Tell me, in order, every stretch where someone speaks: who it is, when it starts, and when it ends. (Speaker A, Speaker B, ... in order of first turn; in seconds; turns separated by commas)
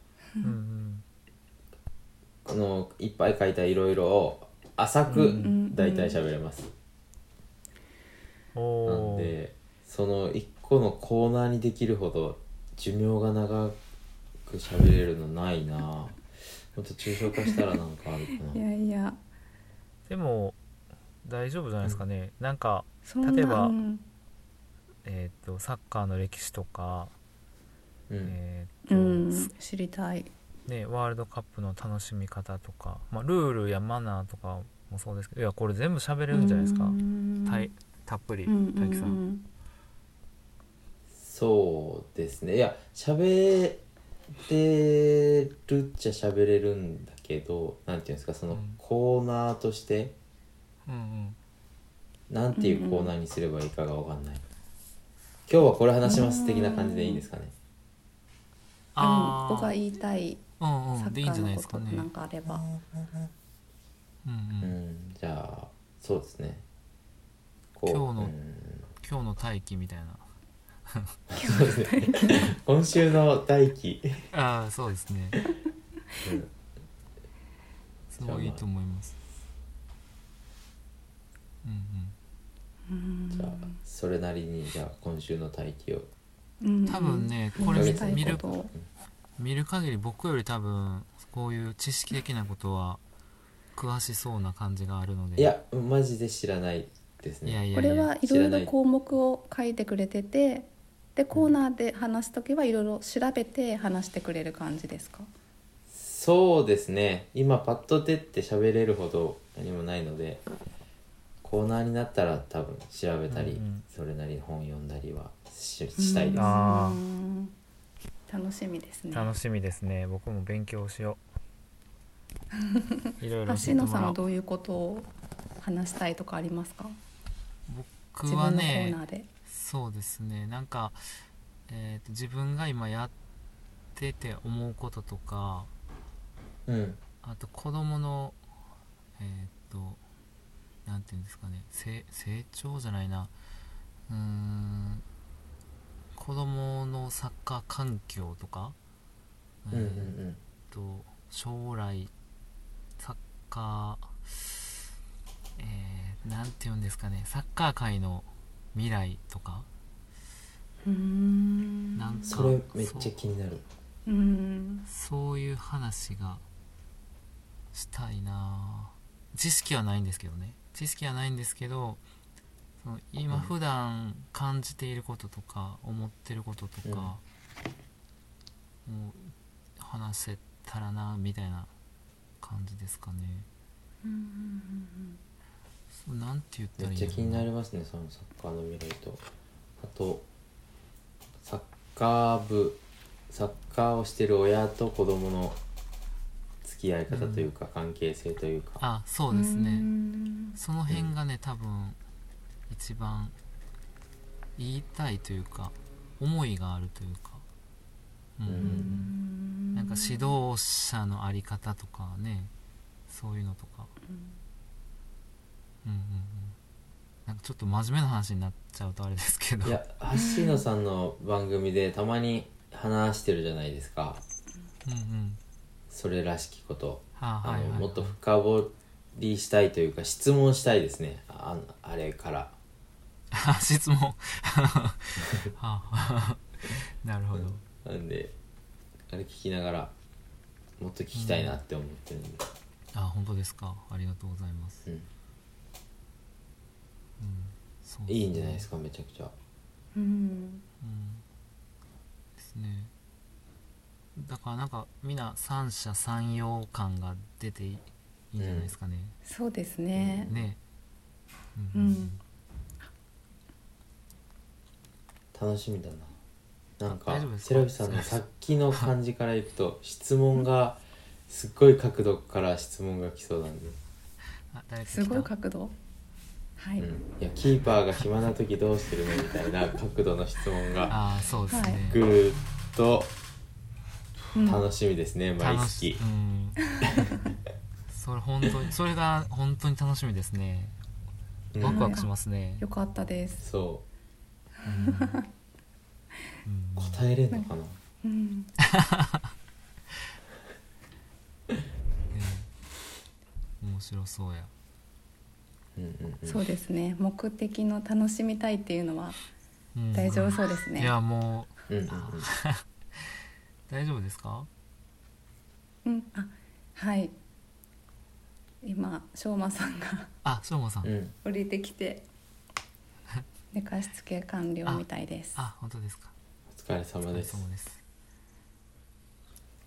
Speaker A: 0.4-1.0, Speaker B: 2.4-6.7, Speaker A: 5.1-5.5, Speaker C: 5.1-6.2, Speaker A: 8.5-9.3, Speaker B: 8.8-13.8, Speaker B: 14.4-18.6, Speaker C: 18.5-19.2, Speaker A: 20.1-20.6, Speaker A: 21.2-23.7, Speaker C: 23.1-24.0, Speaker A: 25.0-27.1, Speaker B: 28.1-28.4, Speaker A: 28.2-29.5, Speaker C: 28.9-30.3, Speaker A: 30.6-39.2, Speaker C: 36.3-37.7, Speaker C: 38.5-39.4, Speaker B: 41.1-43.8, Speaker B: 44.4-50.1, Speaker A: 48.5-48.8, Speaker A: 50.9-51.4, Speaker B: 52.3-54.4, Speaker C: 52.5-53.1, Speaker B: 55.5-57.5, Speaker C: 56.0-57.2, Speaker A: 58.9-59.8, Speaker C: 59.0-60.4, Speaker A: 60.6-62.1, Speaker C: 61.0-62.6, Speaker A: 64.2-64.8, Speaker B: 64.6-66.6, Speaker B: 67.7-68.8, Speaker A: 67.8-68.3, Speaker A: 69.0-70.2, Speaker A: 70.9-71.2, Speaker B: 71.3-74.3, Speaker C: 71.4-72.5, Speaker A: 74.3-75.4, Speaker B: 76.2-76.5, Speaker A: 78.1-79.2, Speaker B: 78.2-78.6, Speaker A: 81.6-82.2, Speaker C: 82.9-83.8, Speaker B: 83.3-86.1, Speaker C: 86.6-88.7, Speaker A: 86.9-88.5, Speaker B: 87.6-88.8, Speaker A: 89.4-93.0, Speaker A: 93.8-95.5, Speaker B: 95.4-97.6, Speaker A: 97.4-98.1, Speaker C: 97.7-105.3, Speaker B: 98.2-98.7, Speaker B: 105.9-110.4, Speaker B: 111.4-116.5, Speaker A: 113.3-113.8, Speaker C: 116.0-117.5, Speaker A: 116.3-117.0, Speaker C: 118.3-119.3, Speaker A: 119.1-121.2, Speaker C: 122.6-125.1, Speaker A: 123.2-124.2, Speaker C: 125.6-127.0, Speaker A: 127.7-131.0, Speaker C: 128.2-129.3, Speaker A: 131.7-133.1, Speaker A: 133.9-135.7, Speaker B: 136.7-137.0, Speaker A: 137.2-138.4, Speaker A: 139.2-140.0, Speaker A: 140.8-143.3, Speaker A: 144.1-145.0, Speaker A: 146.2-148.7, Speaker A: 149.6-150.1, Speaker B: 149.7-150.4, Speaker A: 150.7-152.1, Speaker A: 153.0-154.7, Speaker A: 155.6-159.7, Speaker C: 160.8-162.3, Speaker A: 161.9-163.2, Speaker B: 162.3-163.6, Speaker C: 164.1-164.9, Speaker A: 164.9-166.4, Speaker A: 167.7-172.0, Speaker A: 172.8-177.2, Speaker B: 176.8-177.1, Speaker A: 178.8-181.7, Speaker A: 182.4-183.5, Speaker C: 184.0-185.2, Speaker A: 185.9-187.4, Speaker B: 186.8-189.2, Speaker B: 189.8-190.2, Speaker B: 191.4-195.6, Speaker B: 196.6-198.8, Speaker A: 197.1-197.5, Speaker A: 198.8-199.9, Speaker C: 199.3-200.6, Speaker A: 200.5-202.0, Speaker A: 202.7-203.3, Speaker A: 204.6-207.4, Speaker A: 208.4-209.1, Speaker B: 208.4-209.0, Speaker C: 208.6-210.3, Speaker A: 209.7-212.5, Speaker A: 213.1-213.9, Speaker C: 214.1-214.3, Speaker A: 215.8-216.6, Speaker A: 217.2-219.8, Speaker B: 219.6-224.2, Speaker C: 220.1-220.6, Speaker A: 224.8-225.4, Speaker B: 225.9-232.5, Speaker A: 227.2-228.2, Speaker A: 233.3-237.6, Speaker B: 237.3-238.3, Speaker B: 239.1-239.9, Speaker B: 240.8-242.5, Speaker A: 241.1-241.6, Speaker A: 242.9-244.8, Speaker A: 247.2-248.7, Speaker B: 248.1-249.3, Speaker C: 249.9-250.6, Speaker A: 250.8-251.2, Speaker A: 252.4-252.9, Speaker A: 254.2-259.2, Speaker B: 258.4-258.7, Speaker C: 259.2-260.3, Speaker B: 259.9-260.4, Speaker A: 260.3-260.6, Speaker A: 261.5-262.2, Speaker C: 261.7-262.2, Speaker B: 265.3-266.1, Speaker B: 266.8-273.8, Speaker A: 266.9-268.9, Speaker A: 274.5-275.3, Speaker C: 274.9-275.7, Speaker C: 276.6-276.9, Speaker B: 276.8-281.0, Speaker A: 280.9-282.0, Speaker C: 281.5-281.8, Speaker B: 281.8-283.1, Speaker C: 284.3-284.6, Speaker B: 284.4-286.0, Speaker A: 285.4-287.1, Speaker A: 287.9-290.8, Speaker B: 291.5-292.0, Speaker A: 291.6-292.6, Speaker C: 291.6-293.4, Speaker B: 293.4-293.8, Speaker C: 294.6-295.2, Speaker A: 294.6-295.2, Speaker A: 296.4-297.1, Speaker B: 296.8-297.8, Speaker C: 298.0-298.5, Speaker A: 298.6-299.3, Speaker A: 302.1-302.5, Speaker A: 303.6-304.5, Speaker B: 305.8-306.4, Speaker C: 306.2-309.2, Speaker A: 309.7-313.1, Speaker C: 309.9-310.9, Speaker B: 311.7-312.3, Speaker A: 313.7-314.5, Speaker C: 315.8-317.1, Speaker C: 318.6-320.1, Speaker A: 320.2-320.9, Speaker B: 320.8-321.1, Speaker C: 321.2-322.1, Speaker C: 323.5-325.4, Speaker A: 324.6-326.1, Speaker B: 326.5-327.4, Speaker A: 327.1-327.8